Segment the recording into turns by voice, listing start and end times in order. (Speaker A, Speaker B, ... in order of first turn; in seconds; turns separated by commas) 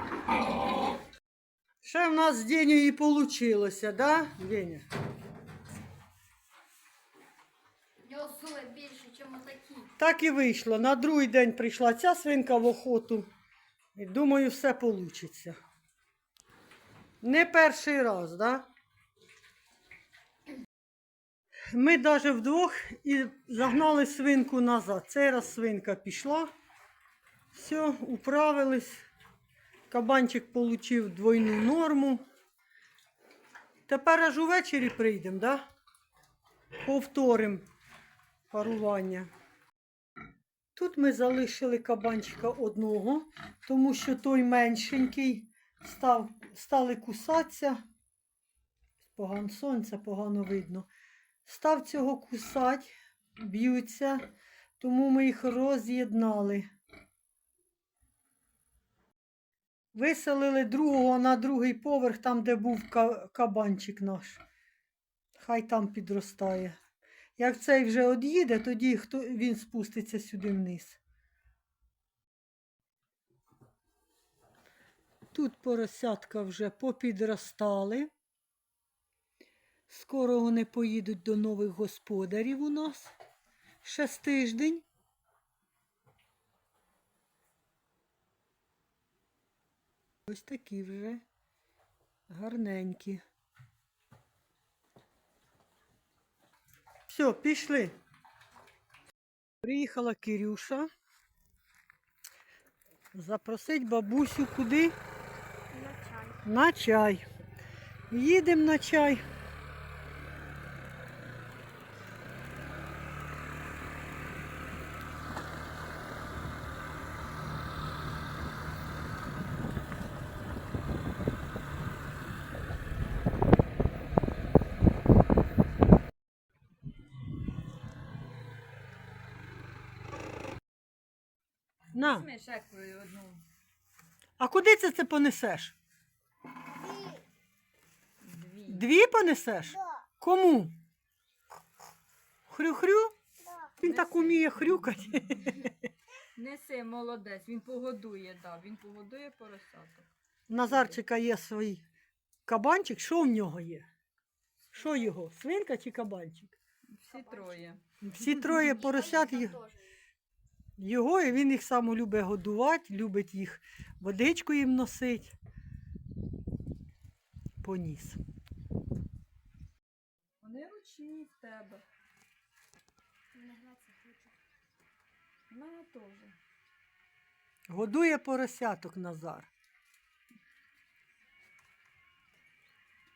Speaker A: 1.8-4.8, Speaker B: 8.0-9.9, Speaker A: 10.0-13.3, Speaker A: 13.9-15.6, Speaker A: 17.2-18.6, Speaker A: 21.7-26.5, Speaker A: 27.5-29.1, Speaker A: 29.9-32.2, Speaker A: 33.9-35.6, Speaker A: 36.8-37.7, Speaker A: 38.5-39.3, Speaker A: 40.8-47.8, Speaker A: 49.0-50.9, Speaker A: 51.5-54.3, Speaker A: 54.8-56.7, Speaker A: 59.9-64.4, Speaker A: 65.4-66.8, Speaker A: 67.4-71.0, Speaker A: 75.3-78.1, Speaker A: 79.9-83.1, Speaker A: 83.8-84.8, Speaker A: 90.3-91.2, Speaker A: 92.3-93.2, Speaker A: 97.1-98.0, Speaker A: 99.6-100.9, Speaker A: 103.1-105.0, Speaker B: 105.8-106.4, Speaker A: 106.5-107.2, Speaker A: 108.1-109.2, Speaker A: 131.9-132.3, Speaker C: 132.0-133.4, Speaker A: 134.4-135.8, Speaker C: 138.2-138.8, Speaker A: 138.7-140.8, Speaker A: 142.5-143.1, Speaker C: 143.8-145.6, Speaker A: 143.8-145.7, Speaker C: 146.4-150.1, Speaker A: 150.5-151.8, Speaker A: 152.5-153.9, Speaker A: 154.7-156.6, Speaker C: 156.9-157.8, Speaker A: 158.0-159.6, Speaker A: 160.8-165.4, Speaker A: 167.6-168.2, Speaker C: 170.4-171.8, Speaker C: 173.5-173.8, Speaker C: 175.5-176.4, Speaker A: 177.7-179.5